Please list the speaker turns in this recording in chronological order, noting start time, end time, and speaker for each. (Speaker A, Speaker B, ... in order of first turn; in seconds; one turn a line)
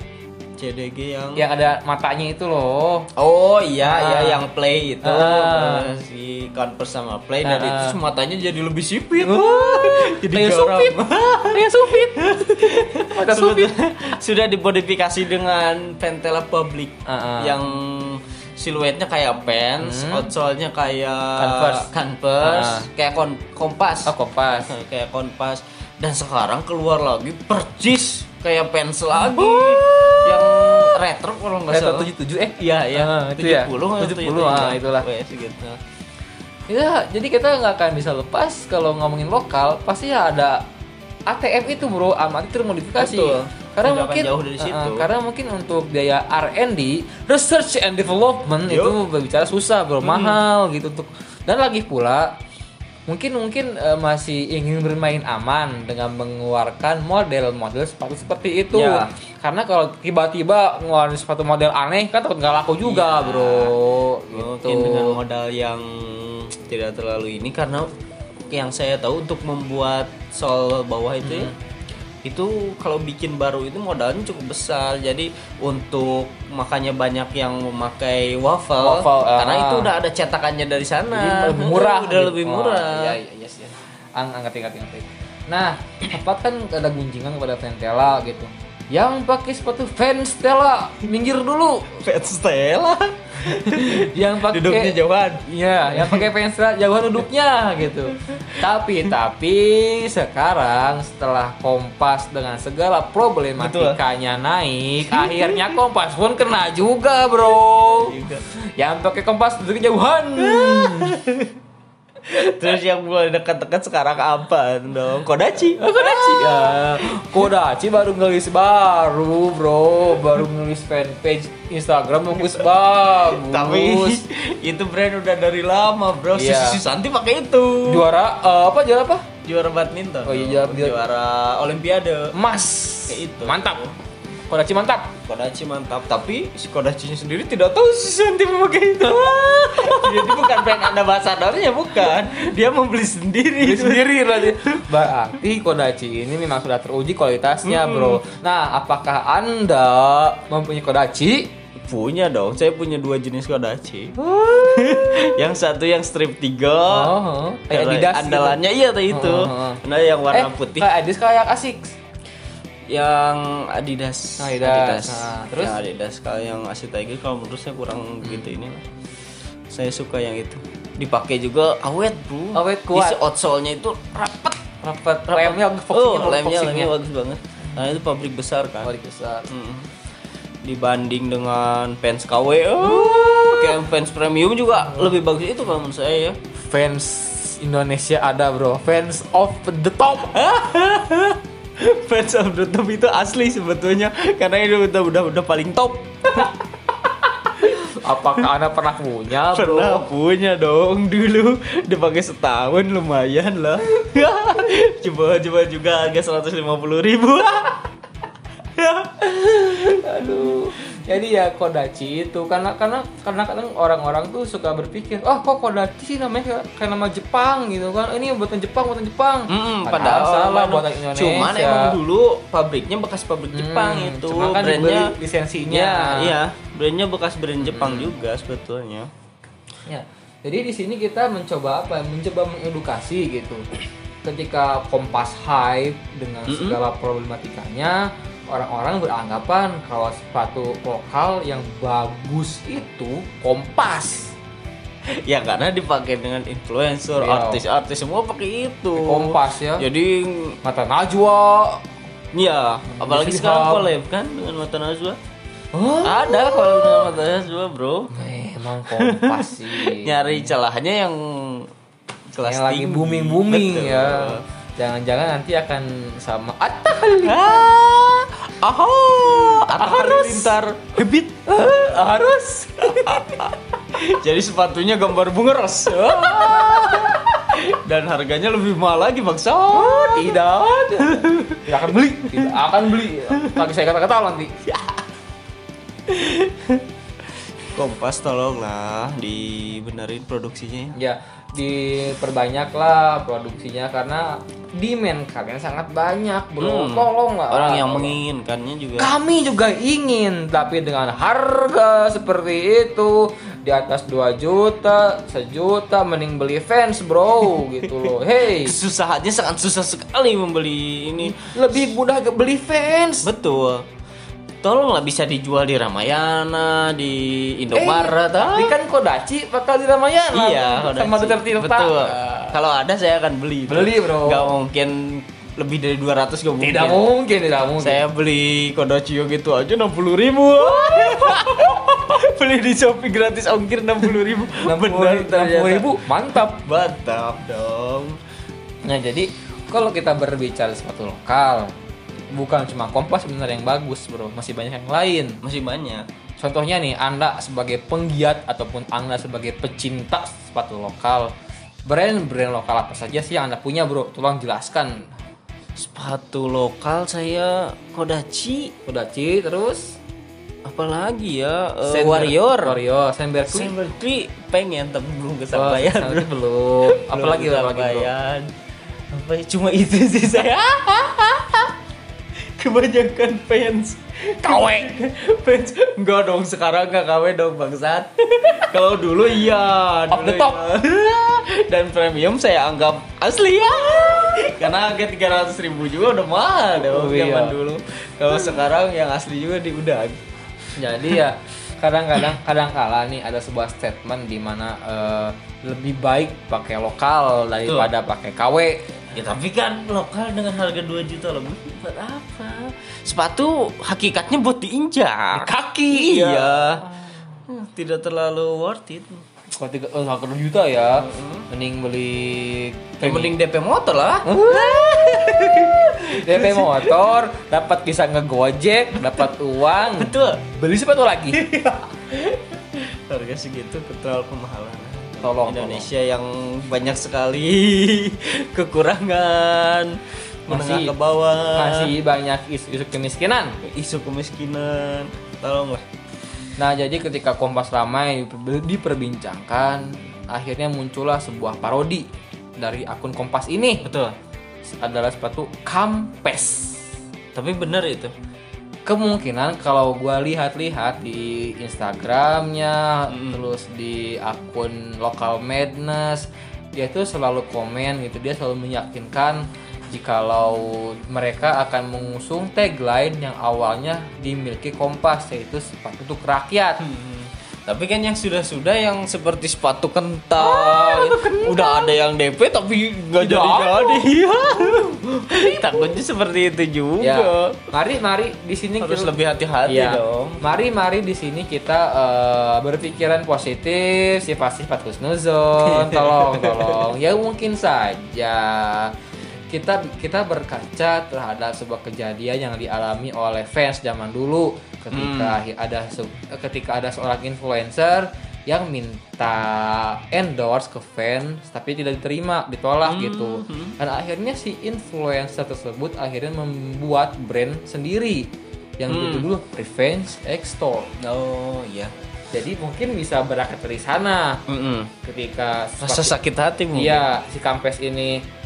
Speaker A: 0.6-1.4
Speaker B: 1.3-3.1
Speaker A: 3.1-35.8
Speaker B: 3.8-4.4
Speaker B: 5.0-5.9
Speaker B: 7.4-8.0
Speaker B: 9.2-13.7
Speaker B: 17.1-17.6
Speaker B: 19.8-20.3
Speaker B: 21.4-21.9
Speaker B: 22.4-22.9
Speaker B: 24.1-24.7
Speaker B: 29.2-31.0
Speaker B: 31.7-35.0
Speaker B: 36.7-40.6
Speaker B: 41.3-52.4
Speaker A: 43.0-45.1
Speaker A: 48.6-49.0
Speaker A: 50.0-50.4
Speaker B: 53.1-65.2
Speaker A: 58.7-59.0
Speaker A: 62.8-63.8
Speaker A: 64.3-67.9
Speaker A: 68.5-71.5
Speaker B: 71.2-71.5
Speaker A: 72.2-83.2
Speaker B: 78.8-79.9
Speaker B: 81.1-92.0
Speaker A: 91.9-96.3
Speaker B: 93.4-108.2
Speaker A: 98.1-98.6
Speaker A: 103.6-104.0
Speaker A: 105.1-105.8
Speaker A: 107.8-108.4
Speaker B: 108.8-111.2
Speaker A: 110.4-111.5
Speaker A: 112.2-116.9
Speaker B: 115.8-124.2
Speaker A: 122.4-122.6
Speaker A: 123.2-128.1
Speaker B: 126.3-126.8
Speaker B: 127.8-129.3
Speaker A: 129.4-132.3
Speaker B: 130.2-131.0
Speaker B: 132.3-133.8
Speaker A: 133.1-133.9
Speaker B: 134.5-135.2
Speaker A: 135.2-144.9
Speaker B: 139.1-140.6
Speaker B: 143.6-151.5
Speaker A: 147.6-148.2
Speaker A: 151.8-157.1
Speaker B: 154.2-155.4
Speaker B: 156.9-161.9
Speaker A: 157.7-160.9
Speaker A: 162.9-168.8
Speaker B: 164.4-165.8
Speaker A: 169.7-174.6
Speaker B: 172.5-173.2
Speaker B: 174.8-176.9
Speaker A: 175.3-178.9
Speaker B: 178.8-179.5
Speaker A: 179.5-179.9
Speaker A: 180.6-186.4
Speaker B: 182.8-183.8
Speaker B: 186.7-190.4
Speaker A: 190.3-196.6
Speaker B: 197.4-200.0
Speaker A: 199.4-207.8
Speaker A: 208.8-209.3
Speaker B: 209.2-222.0
Speaker A: 219.5-225.1
Speaker B: 223.5-226.4
Speaker A: 225.7-229.1
Speaker B: 227.6-228.1
Speaker B: 229.9-233.6
Speaker B: 234.2-244.3
Speaker A: 236.5-236.8
Speaker A: 245.2-250.6
Speaker B: 247.2-247.6
Speaker B: 248.9-249.9
Speaker B: 250.6-251.8
Speaker A: 252.3-255.2
Speaker B: 252.9-253.9
Speaker B: 255.7-257.1
Speaker A: 256.0-258.1
Speaker B: 258.1-260.5
Speaker A: 258.9-261.7
Speaker A: 262.3-264.4
Speaker B: 262.4-267.7
Speaker A: 267.2-272.0
Speaker B: 269.3-270.6
Speaker B: 271.5-273.5
Speaker A: 272.8-280.4
Speaker B: 276.0-277.2
Speaker B: 279.7-284.7
Speaker A: 281.0-281.7
Speaker A: 283.3-283.6
Speaker A: 286.1-286.9
Speaker A: 287.6-290.9
Speaker B: 290.9-298.2
Speaker A: 296.6-299.1
Speaker B: 299.0-308.8
Speaker A: 308.0-311.9
Speaker B: 311.2-313.3
Speaker A: 313.2-313.9
Speaker A: 314.6-318.8
Speaker B: 317.7-322.6
Speaker A: 320.3-327.0
Speaker B: 323.7-324.5
Speaker B: 326.6-328.0
Speaker A: 327.8-336.0
Speaker B: 330.6-331.9
Speaker B: 334.5-336.6
Speaker A: 336.5-338.2
Speaker B: 338.8-341.7
Speaker B: 342.3-345.4
Speaker A: 345.4-346.1
Speaker B: 346.4-351.3
Speaker B: 351.9-355.1
Speaker A: 355.8-358.7
Speaker B: 358.9-360.0
Speaker A: 360.6-362.8
Speaker B: 361.8-363.7
Speaker A: 363.5-368.5
Speaker B: 365.5-368.1
Speaker A: 369.1-371.8
Speaker A: 372.6-390.2
Speaker B: 374.4-374.9
Speaker B: 380.1-380.6
Speaker B: 386.7-387.6
Speaker B: 390.8-399.0
Speaker A: 397.6-397.9
Speaker A: 399.1-406.9
Speaker B: 405.3-407.2
Speaker A: 407.5-409.2
Speaker B: 409.5-413.3
Speaker A: 411.0-411.4
Speaker A: 413.0-417.1
Speaker B: 414.2-421.4
Speaker A: 419.8-420.4
Speaker A: 421.3-431.9
Speaker B: 425.2-425.9
Speaker B: 430.5-430.9
Speaker B: 431.5-433.6
Speaker A: 433.6-435.8
Speaker B: 436.6-443.9
Speaker A: 443.8-444.1
Speaker B: 444.8-446.8
Speaker A: 447.3-448.1
Speaker B: 448.9-466.8
Speaker A: 453.1-453.4
Speaker A: 466.8-477.7
Speaker B: 470.4-471.9
Speaker B: 473.2-474.1
Speaker B: 475.3-475.8
Speaker B: 477.0-488.9
Speaker A: 478.8-480.4
Speaker A: 485.6-486.9
Speaker B: 489.5-510.9
Speaker A: 494.9-495.4
Speaker A: 502.8-503.8
Speaker A: 508.9-509.3
Speaker A: 511.0-511.9
Speaker B: 512.3-514.4
Speaker A: 514.5-514.9
Speaker B: 515.0-516.1
Speaker A: 515.8-517.0
Speaker B: 516.7-518.2